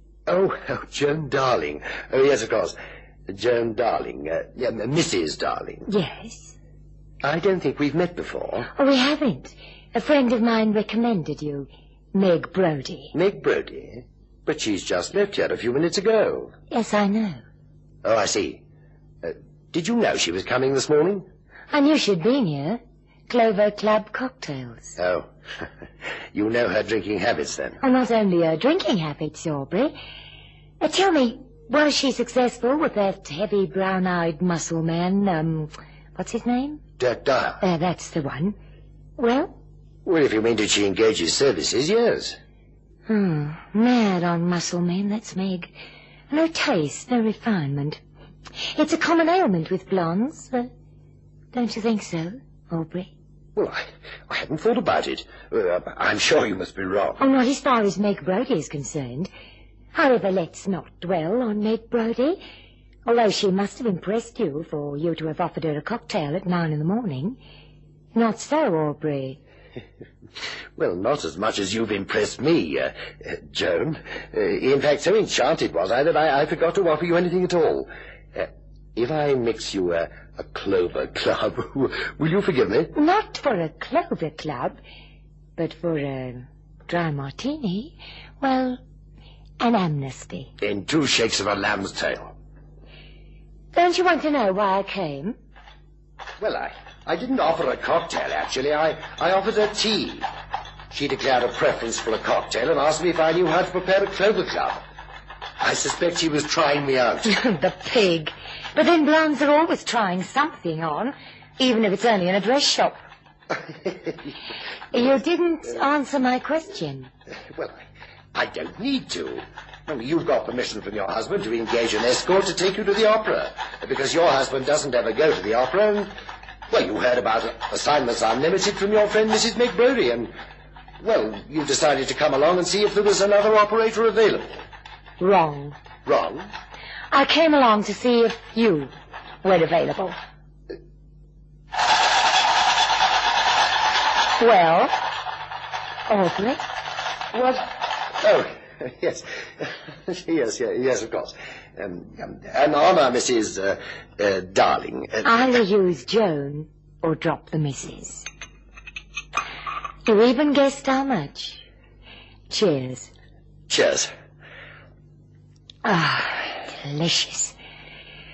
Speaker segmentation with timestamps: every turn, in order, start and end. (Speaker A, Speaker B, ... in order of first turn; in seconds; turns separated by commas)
Speaker A: 0.3-2.8, Speaker A: 3.3-5.9, Speaker B: 5.8-6.5, Speaker A: 7.2-8.7, Speaker B: 8.7-13.1, Speaker A: 13.1-16.5, Speaker B: 16.7-17.4, Speaker A: 18.0-18.6, Speaker A: 19.2-21.2, Speaker B: 21.7-24.9, Speaker A: 25.0-25.6, Speaker A: 26.3-27.8, Speaker B: 27.8-29.9, Speaker B: 30.8-36.8, Speaker A: 37.0-37.6, Speaker B: 37.6-38.5, Speaker B: 39.2-39.5, Speaker A: 40.0-42.4, Speaker B: 43.1-45.7, Speaker B: 46.3-48.0, Speaker B: 48.7-50.7, Speaker B: 51.5-53.1, Speaker A: 53.5-57.2, Speaker B: 57.2-59.3, Speaker B: 59.9-62.4, Speaker B: 63.0-67.4, Speaker B: 68.1-69.4, Speaker A: 70.8-82.9, Speaker B: 82.9-84.8, Speaker B: 85.6-88.8, Speaker B: 89.6-90.5, Speaker A: 90.6-92.3, Speaker B: 93.7-95.3, Speaker A: 96.4-100.3, Speaker A: 100.9-104.8, Speaker A: 105.6-107.3, Speaker B: 107.2-113.0, Speaker A: 113.6-114.3, Speaker B: 114.9-117.1, Speaker A: 117.5-117.8, Speaker A: 118.3-126.1, Speaker A: 126.7-130.3, Speaker A: 131.0-134.5, Speaker B: 135.2-135.7, Speaker A: 136.0-136.5, Speaker B: 137.1-138.9, Speaker B: 139.4-140.2, Speaker B: 144.4-145.0, Speaker B: 146.1-146.6, Speaker B: 147.3-147.6, Speaker A: 148.2-155.4, Speaker B: 155.2-158.2, Speaker B: 160.0-161.6, Speaker B: 162.5-163.1, Speaker A: 163.7-164.1, Speaker B: 165.8-167.5